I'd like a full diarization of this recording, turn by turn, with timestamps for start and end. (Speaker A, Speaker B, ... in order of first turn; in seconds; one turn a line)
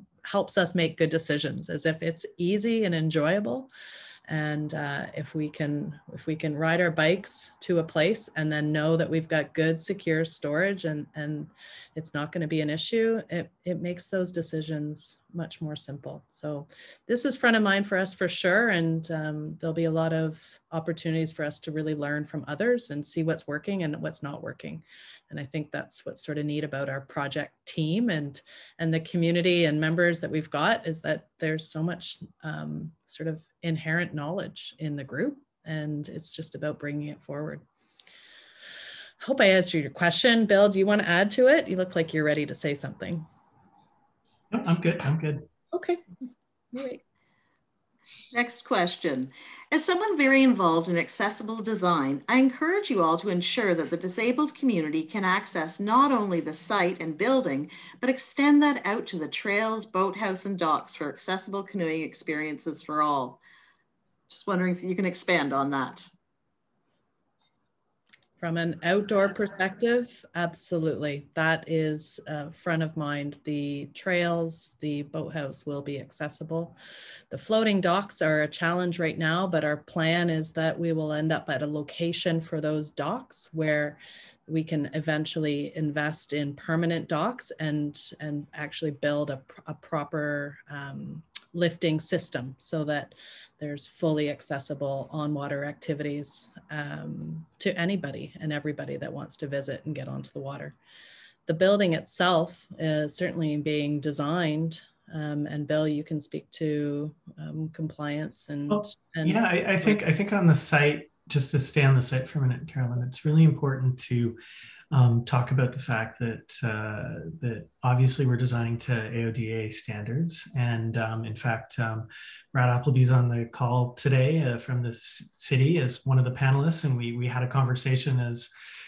Speaker A: 0.2-3.7
Speaker A: 4.3-37.6
Speaker A: 39.2-43.2
Speaker B: 44.5-45.5
Speaker A: 45.7-46.0
Speaker A: 46.7-47.0
Speaker C: 48.3-63.4
Speaker C: 64.3-66.1
Speaker A: 68.4-76.7
Speaker A: 77.3-100.7
Speaker A: 101.5-110.0
Speaker B: 108.7-114.4
Speaker B: 114.9-128.5